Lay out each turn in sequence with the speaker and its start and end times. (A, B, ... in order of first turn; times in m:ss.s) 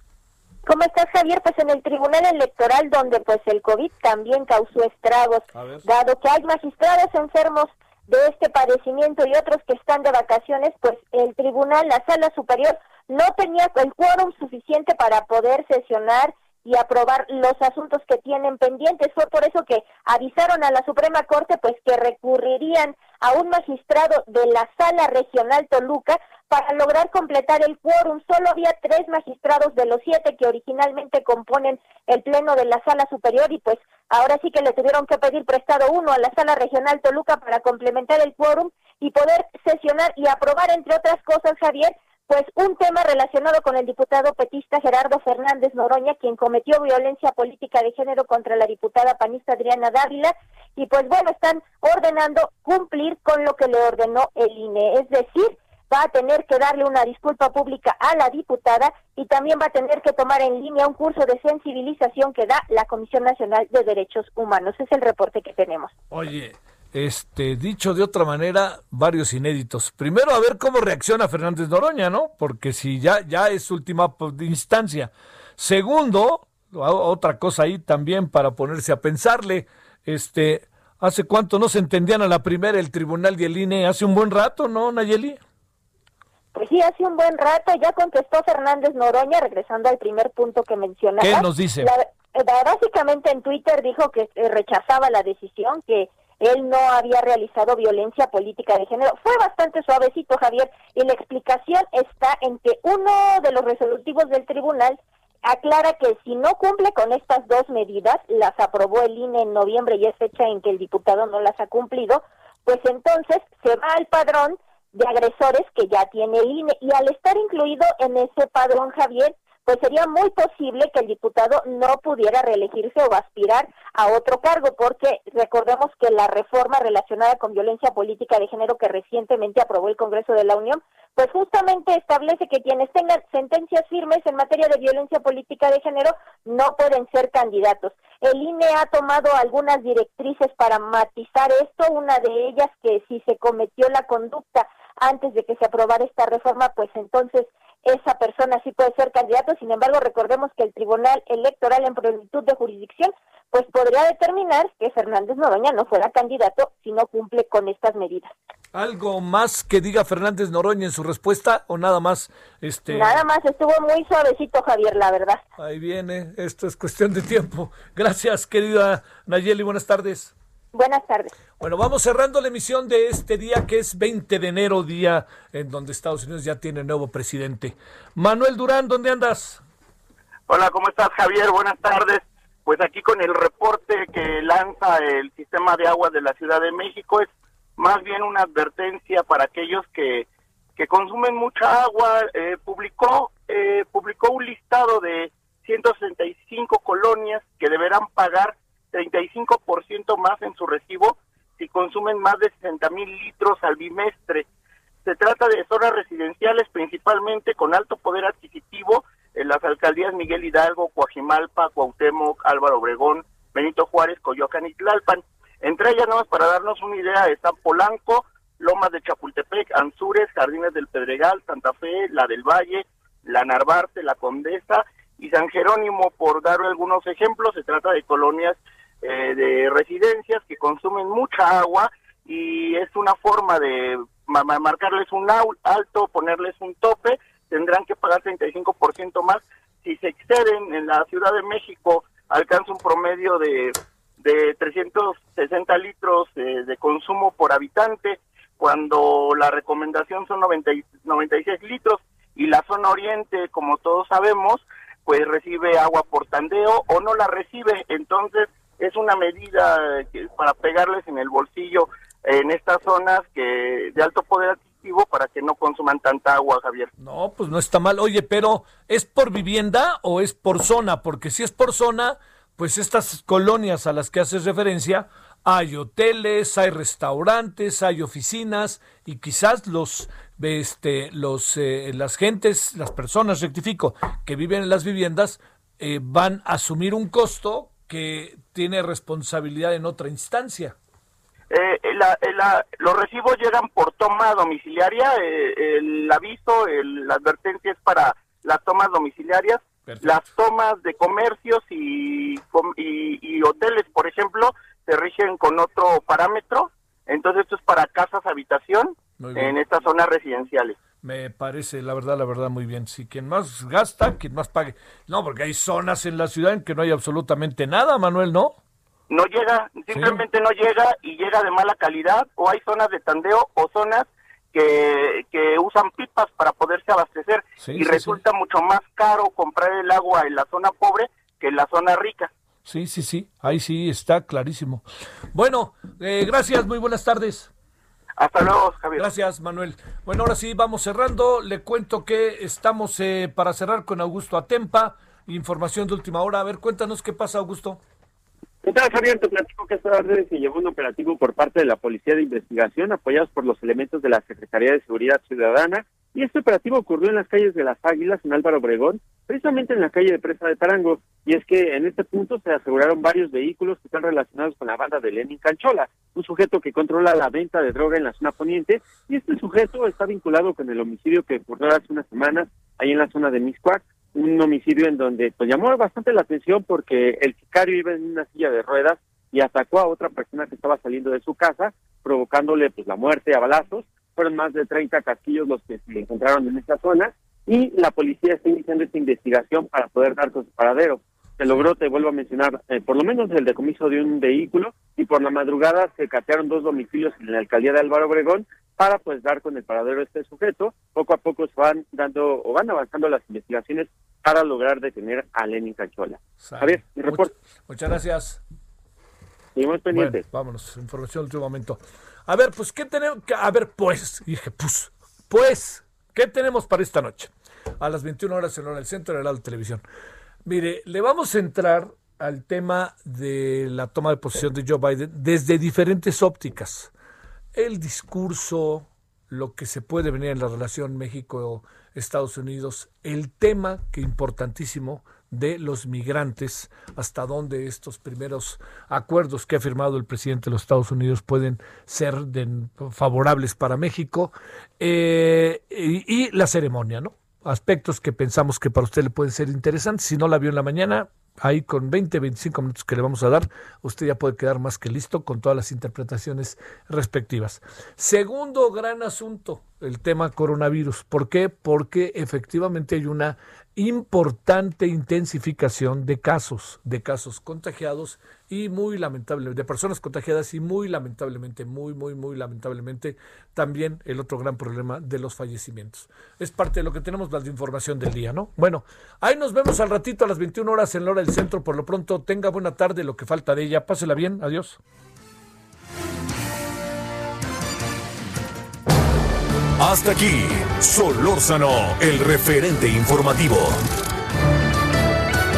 0:00.6-1:05.9 A
0:05.5-0:05.8 B
1:06.1-1:25.4 B
1:26.5-2:38.3 A
1:31.2-1:31.9 B
2:38.7-2:43.2 B
2:42.9-2:45.4 A
2:45.6-2:50.3 B
2:50.7-2:51.3 A
2:51.6-2:59.6 B
3:00.5-3:10.2 C
3:10.8-3:24.4 C
3:25.0-4:26.9 C
4:27.0-4:50.7 B
4:51.5-5:10.8 C
4:59.8-5:00.2 B
5:09.2-5:09.6 B
5:11.0-5:18.6 B
5:19.1-5:32.3 C
5:19.9-5:20.2 B
5:27.6-5:28.2 B
5:32.6-5:34.8 B
5:35.3-5:37.5 B
5:38.2-5:39.1 C
5:39.0-5:47.8 B
5:48.6-6:47.3 D
6:46.4-6:48.4 B
6:49.6-6:50.2 D
6:49.9-6:59.8 B
7:00.4-7:06.9 B
7:07.5-8:04.8 B
8:09.8-8:13.8 E